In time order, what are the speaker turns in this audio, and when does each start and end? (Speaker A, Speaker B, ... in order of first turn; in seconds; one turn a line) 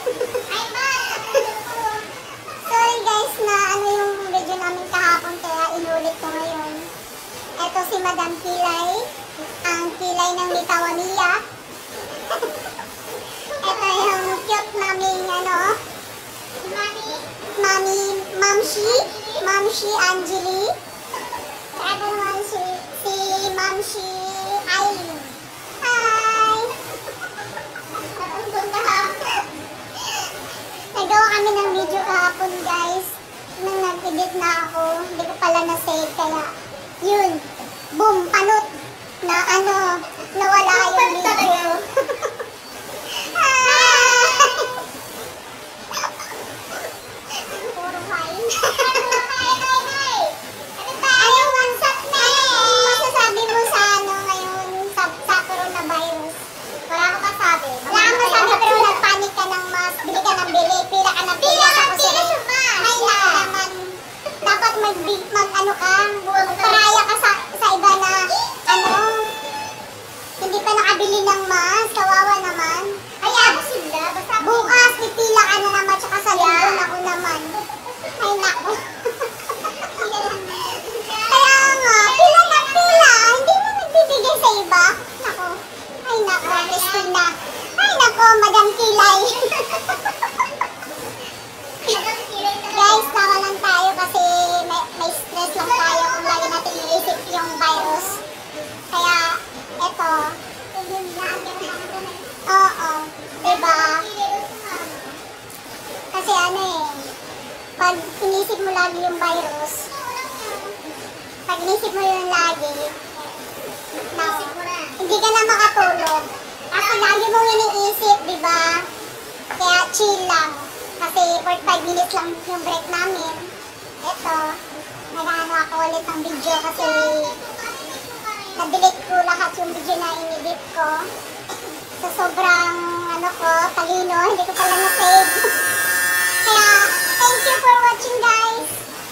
Speaker A: 0.3-2.1
Speaker B: 2.6-6.9
Speaker B: 7.6-9.1
Speaker B: 9.6-11.4
Speaker B: 13.6-15.8
Speaker A: 16.6-17.2
Speaker B: 17.6-20.8
Speaker B: 21.7-26.8
Speaker A: 28.1-29.4
Speaker B: 30.9-42.2
Speaker B: 43.1-44.8
Speaker B: 47.4-49.3
Speaker A: 48.8-50.4
Speaker B: 50.8-56.4
Speaker A: 56.9-59.0
Speaker B: 57.9-69.3
Speaker A: 61.4-63.5
Speaker B: 70.4-73.6
Speaker A: 73.2-74.8
Speaker B: 74.4-77.6
Speaker A: 76.3-76.9
Speaker B: 78.2-80.4
Speaker A: 79.8-82.9
Speaker B: 81.2-90.1
Speaker A: 86.5-87.1
Speaker A: 91.8-93.2
Speaker B: 92.7-98.2
Speaker B: 98.9-104.1
Speaker A: 103.5-105.2
Speaker B: 106.1-107.2
Speaker B: 107.8-109.9
Speaker A: 109.9-110.8
Speaker B: 111.5-113.1
Speaker B: 114.1-118.9
Speaker A: 114.2-115.0
Speaker B: 119.6-127.4
Speaker A: 126.9-128.6
Speaker B: 128.6-131.1
Speaker B: 132.0-135.6
Speaker B: 136.4-138.7